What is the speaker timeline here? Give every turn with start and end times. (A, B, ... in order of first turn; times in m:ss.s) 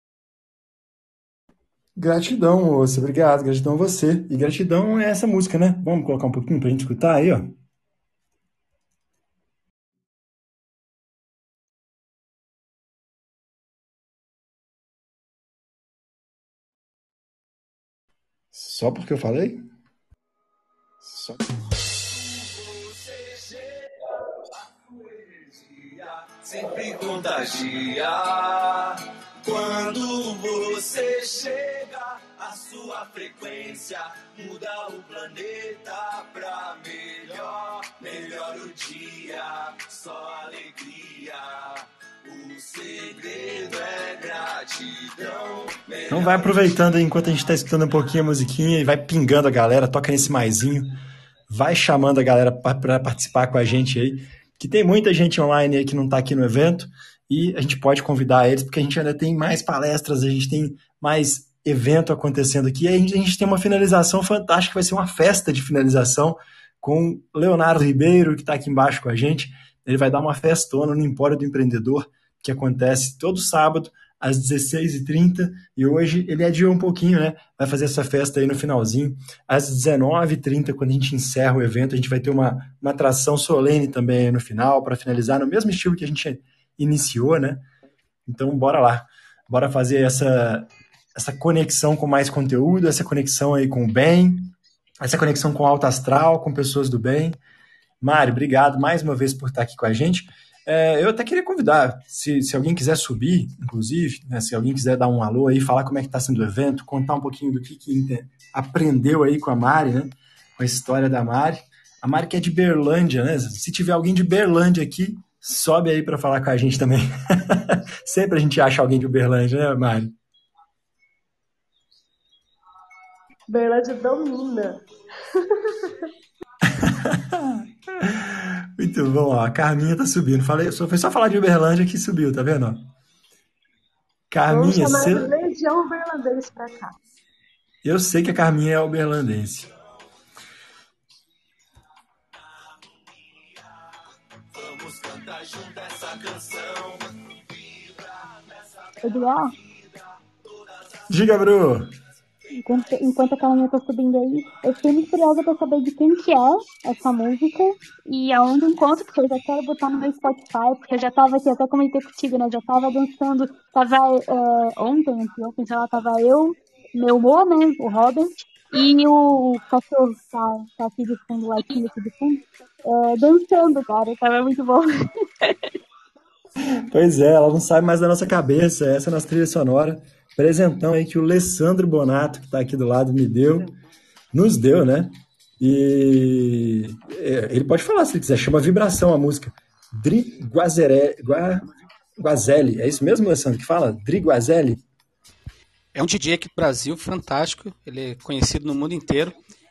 0:02.0-0:07.6 A
0:18.5-0:19.7 A
0:21.0-0:21.4 A
0:21.9-0:46.8 B
0:46.1-0:51.0 A
0:51.5-1:27.6 A
1:28.3-1:37.4 A
1:38.0-2:00.2 A
2:03.5-2:04.8 C
2:05.3-2:06.0 C
2:06.7-2:12.9 A
2:14.3-2:15.3 A
2:14.5-2:17.0 C
2:17.8-2:19.7 A
2:22.3-2:23.8 B
2:24.5-2:31.1 B
2:29.0-2:29.5 D
2:31.1-2:31.9 A
2:32.6-2:54.9 D
2:56.9-3:03.8 A
3:04.3-3:14.8 A
3:15.9-3:19.4 E